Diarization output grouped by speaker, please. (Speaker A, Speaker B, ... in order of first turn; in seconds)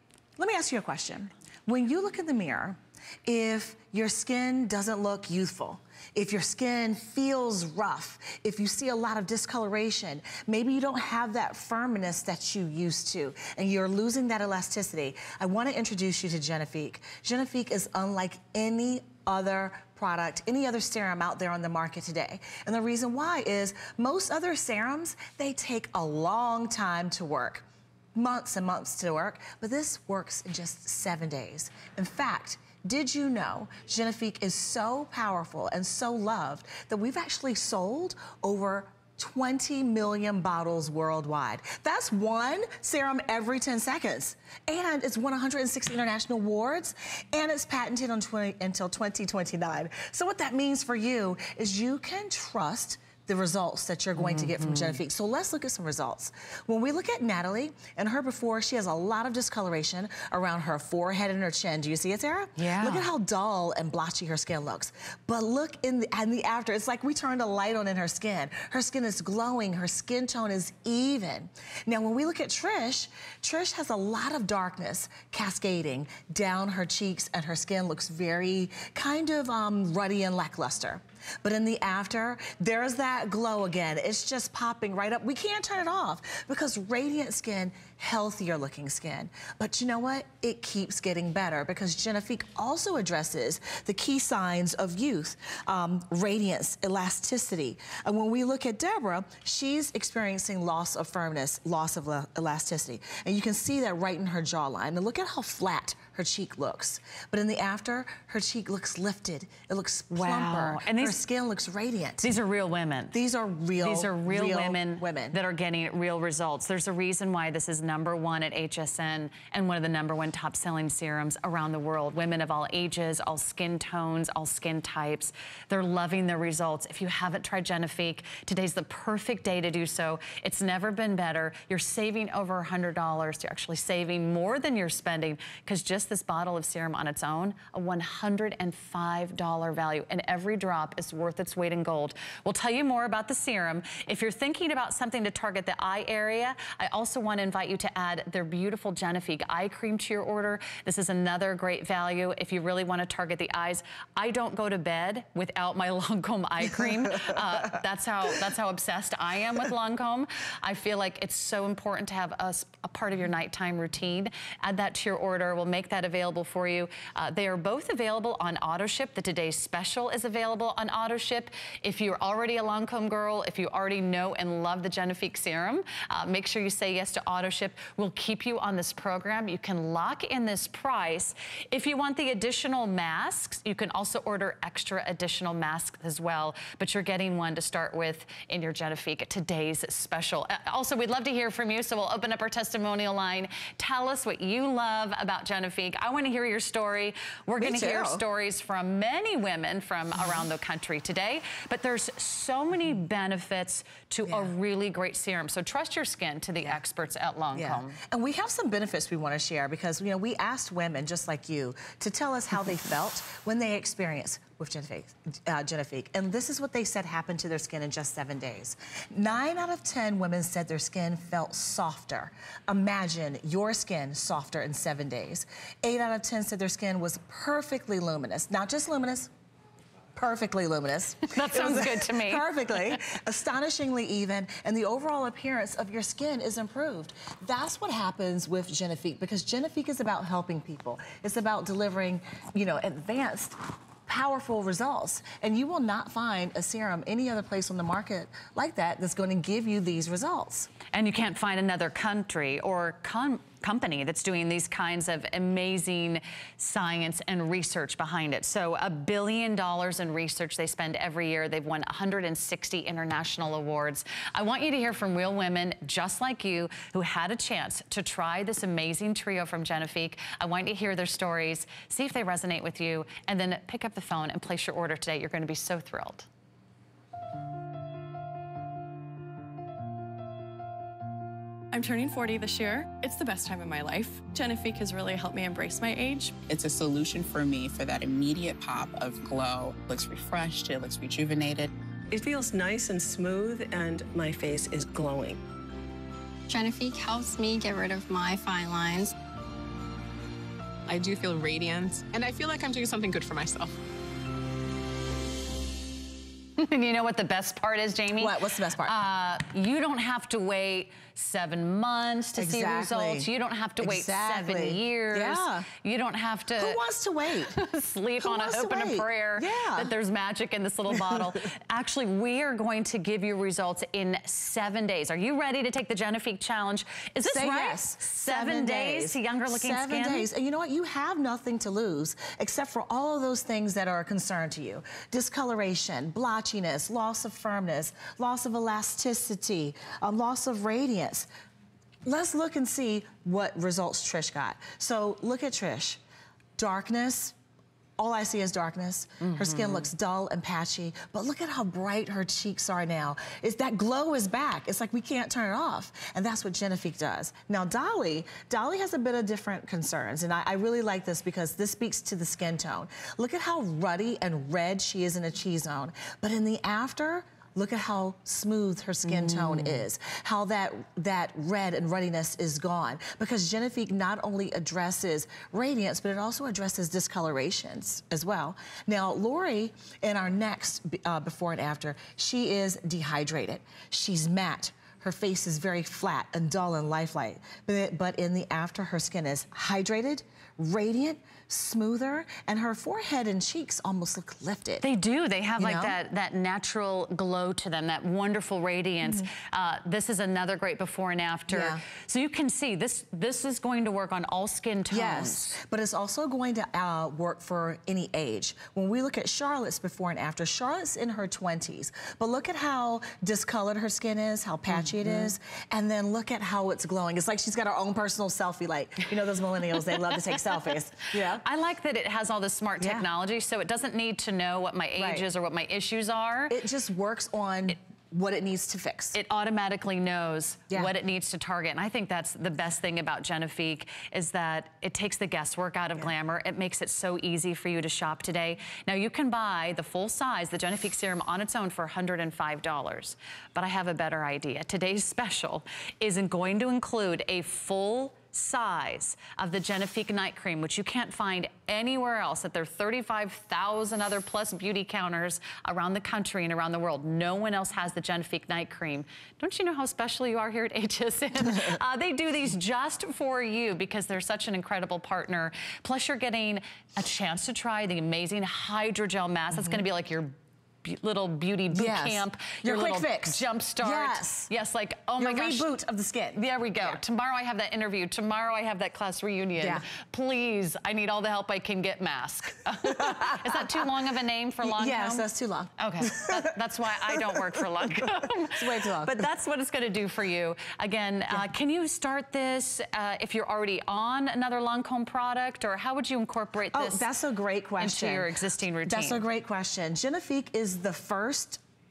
Speaker A: 0.4-112.3, 113.1-115.3, 197.6-198.2, 207.5-229.3, 230.1-250.7, 308.2-308.9, 312.4-313.3, 313.8-315.7, 316.6-317.6, 318.2-319.9, 320.9-321.3, 327.2-341.3, 342.1-346.0, 346.6-347.3, 348.0-394.8, 395.6-395.9, 401.5-401.8, 404.9-421.4, 422.8-423.1, 425.0-425.3, 426.5-429.1, 469.5-469.8, 471.7-474.5, 475.2-477.0, 479.6-479.8, 482.8-483.9, 484.6-489.3, 496.7-498.3, 498.9-501.6
Speaker B: 54.2-55.0, 62.5-63.1, 110.1-111.2, 112.2-113.1, 113.8-208.0, 231.3-232.5, 250.9-276.3, 306.6-316.8, 317.5-330.3, 349.2-349.9, 369.0-369.8, 394.8-405.5, 414.7-415.3, 421.4-426.6, 429.1-470.3, 470.8-475.7, 476.3-497.1, 497.8-499.2
Speaker C: 281.7-286.4
Speaker D: 286.4-291.7
Speaker E: 292.1-295.3
Speaker F: 296.5-299.1
Speaker G: 300.9-303.7